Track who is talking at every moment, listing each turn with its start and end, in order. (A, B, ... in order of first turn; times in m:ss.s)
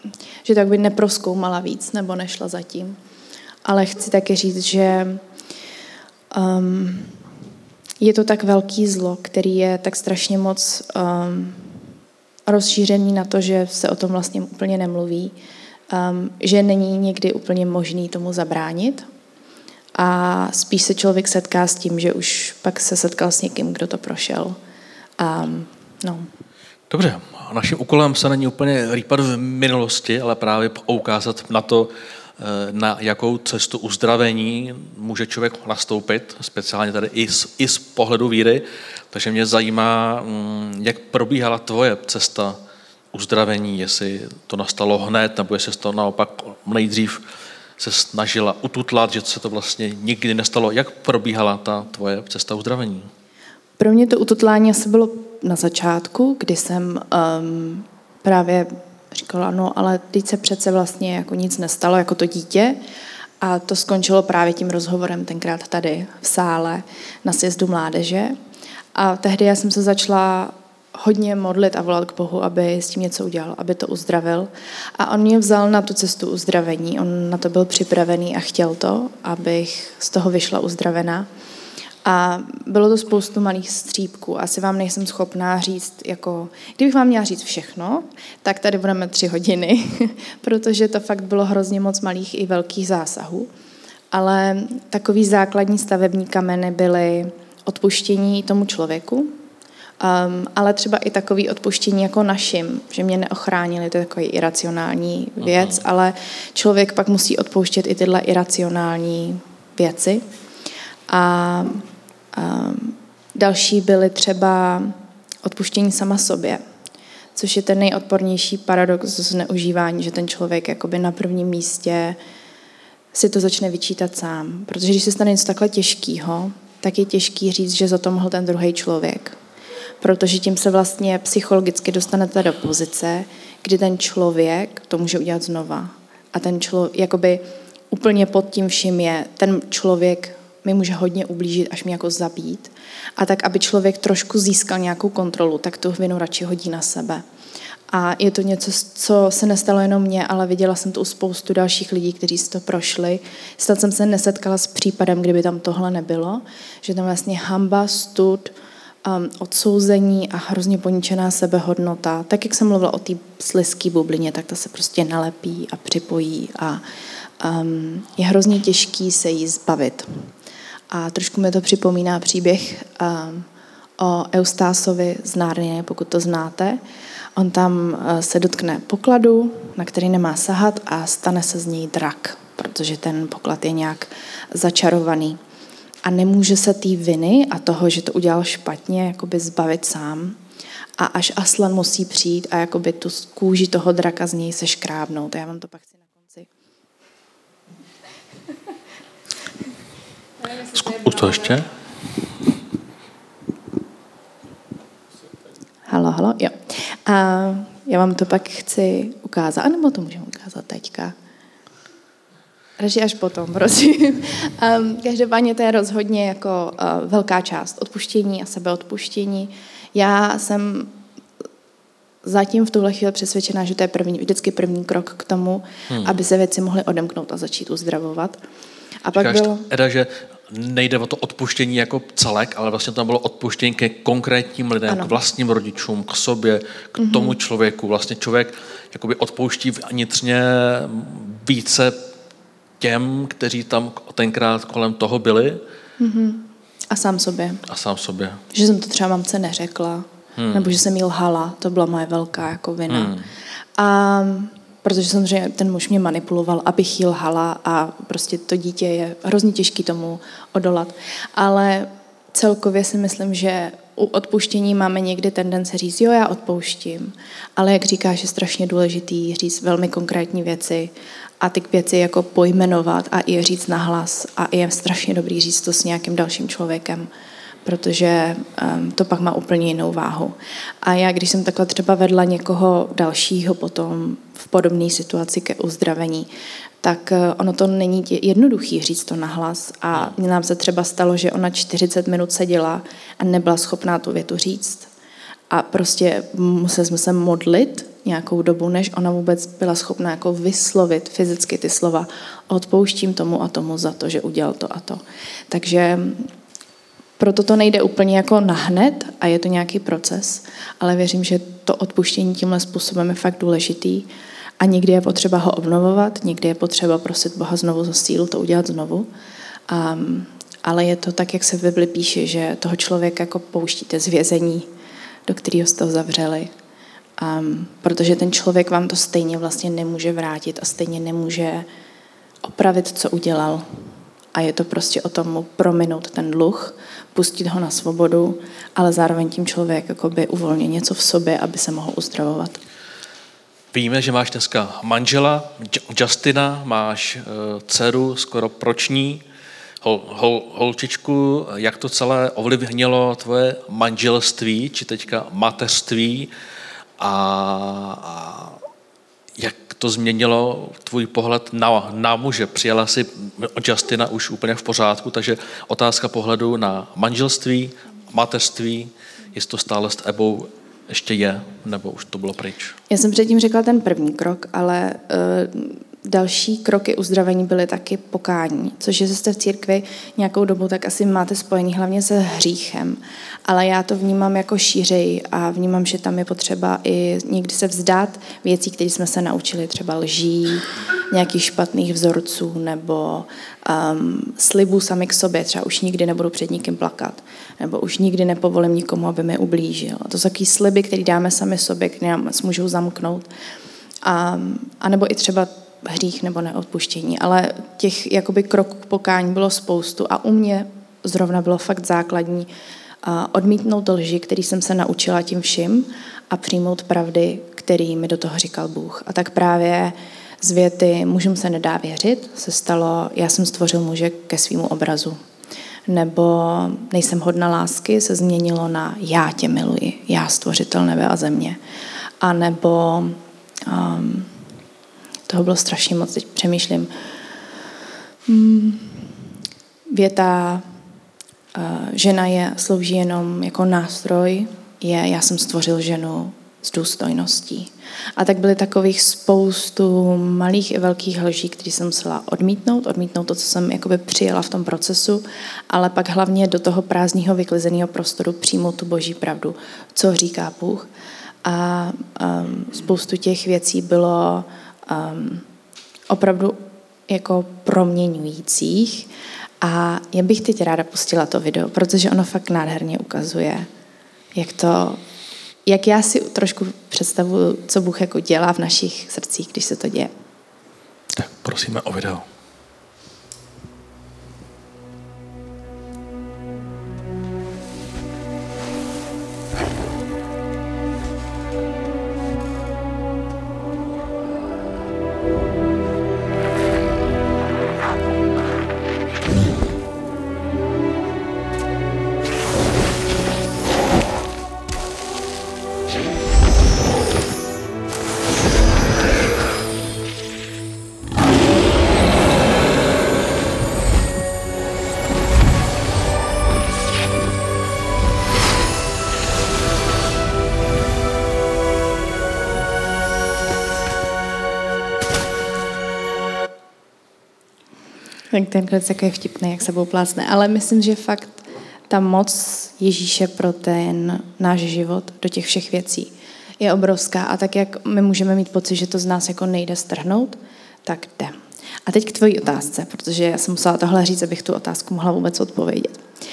0:00.4-0:03.0 A
0:03.6-0:05.2 A
0:06.3-0:07.2 A
0:08.0-0:11.9 A
0:12.5-0:15.4 A
0:15.9-0:19.1 A
0:20.0-0:24.6 A
0:25.2-0:26.3 A
0:26.9-0:42.6 B
0:43.1-0:47.2 B
0:47.8-0:53.1 B
0:53.8-1:02.8 A
1:03.4-1:08.4 A
1:08.9-1:21.3 A
1:22.0-1:33.5 A
1:34.1-1:39.3 A
1:40.0-1:50.2 A
1:45.4-1:45.8 B
1:51.1-1:56.6 A
1:57.3-2:02.2 A
2:03.1-2:09.4 A
2:10.0-2:27.2 A
2:27.9-2:46.8 A
2:47.4-2:50.3 A
2:50.9-2:56.8 A
2:57.4-3:05.4 A
3:06.0-3:10.4 A
3:11.0-3:16.5 A
3:20.5-3:21.7 B
3:25.9-3:31.1 A
3:32.8-3:41.0 A
3:42.2-3:48.4 A
3:45.9-3:46.2 B
3:49.0-3:49.6 A
3:49.2-4:02.1 B
3:54.9-3:55.1 A
3:57.0-3:57.4 A
4:02.8-4:05.6 B
4:06.0-4:07.6 A
4:07.7-4:08.4 B
4:08.5-4:13.2 A
4:10.4-4:10.8 B
4:12.9-4:13.3 B
4:13.8-4:37.1 A
4:37.6-4:46.3 A
4:46.8-4:54.9 A
4:55.5-5:06.3 A
5:07.2-5:14.1 A
5:14.6-5:19.1 A
5:19.7-5:24.7 A
5:25.2-5:26.5 A
5:27.2-5:31.7 A
5:32.4-5:42.6 A
5:43.7-5:49.2 B
5:49.8-5:56.3 B
5:57.0-5:58.6 B
5:59.4-6:12.8 B
6:12.9-6:43.3 A
6:44.0-6:52.5 A
6:53.0-7:05.2 A
7:05.9-7:11.6 A
7:12.2-7:14.4 A
7:15.3-7:16.9 A
7:18.2-7:19.2 A
7:19.9-7:20.6 A
7:21.5-7:40.9 A
7:41.4-7:45.4 A
7:46.1-7:49.1 A
7:49.6-7:53.7 A
7:54.3-7:55.0 A
7:55.6-8:00.1 A
8:01.1-8:02.2 B
8:48.3-9:06.0 A